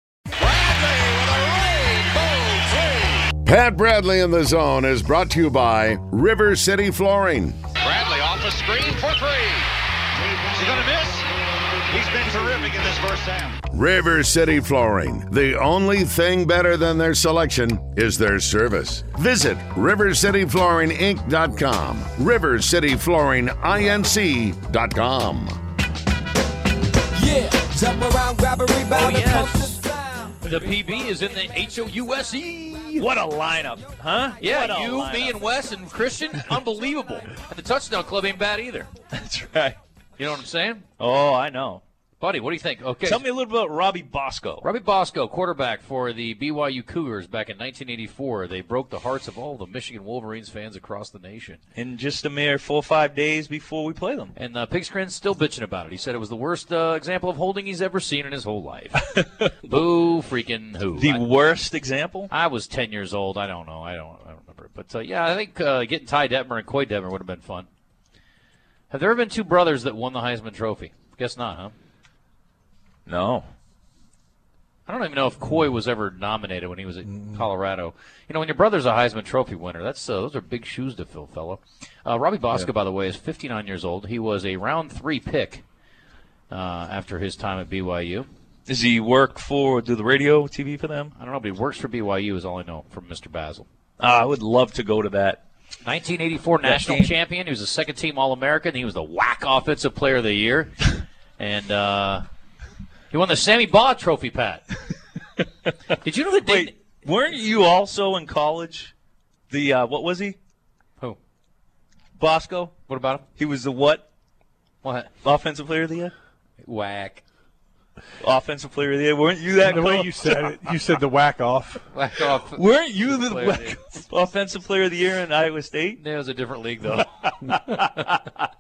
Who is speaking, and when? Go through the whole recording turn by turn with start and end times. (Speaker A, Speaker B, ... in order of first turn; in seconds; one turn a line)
Speaker A: 0.4-3.2
Speaker B: 3.4-7.6
Speaker A: 8.4-9.5
Speaker A: 10.3-11.1
Speaker A: 11.9-13.6
Speaker B: 13.7-25.6
Speaker C: 27.1-30.4
Speaker D: 28.9-29.8
Speaker D: 30.4-33.0
Speaker E: 33.0-35.4
Speaker D: 34.4-38.9
Speaker E: 39.1-39.8
Speaker D: 40.2-40.9
Speaker E: 41.0-41.8
Speaker D: 42.2-43.2
Speaker E: 43.0-44.6
Speaker D: 44.6-51.6
Speaker E: 51.8-54.3
Speaker D: 54.4-61.2
Speaker E: 61.0-62.3
Speaker D: 62.3-67.7
Speaker D: 68.9-71.8
Speaker E: 73.1-73.5
Speaker D: 74.9-85.6
Speaker D: 86.5-88.3
Speaker E: 88.7-91.1
Speaker D: 91.2-93.7
Speaker E: 94.0-95.4
Speaker D: 95.8-100.8
Speaker E: 96.6-97.1
Speaker D: 101.4-102.2
Speaker D: 103.1-104.6
Speaker D: 105.9-106.8
Speaker E: 106.5-108.9
Speaker E: 109.5-110.4
Speaker E: 112.2-112.7
Speaker D: 112.9-113.3
Speaker E: 113.4-114.1
Speaker D: 114.8-115.1
Speaker E: 115.2-116.1
Speaker D: 116.6-117.2
Speaker E: 118.2-120.7
Speaker F: 119.6-121.9
Speaker D: 121.9-124.0
Speaker E: 122.2-126.0
Speaker D: 126.0-128.1
Speaker E: 127.4-128.2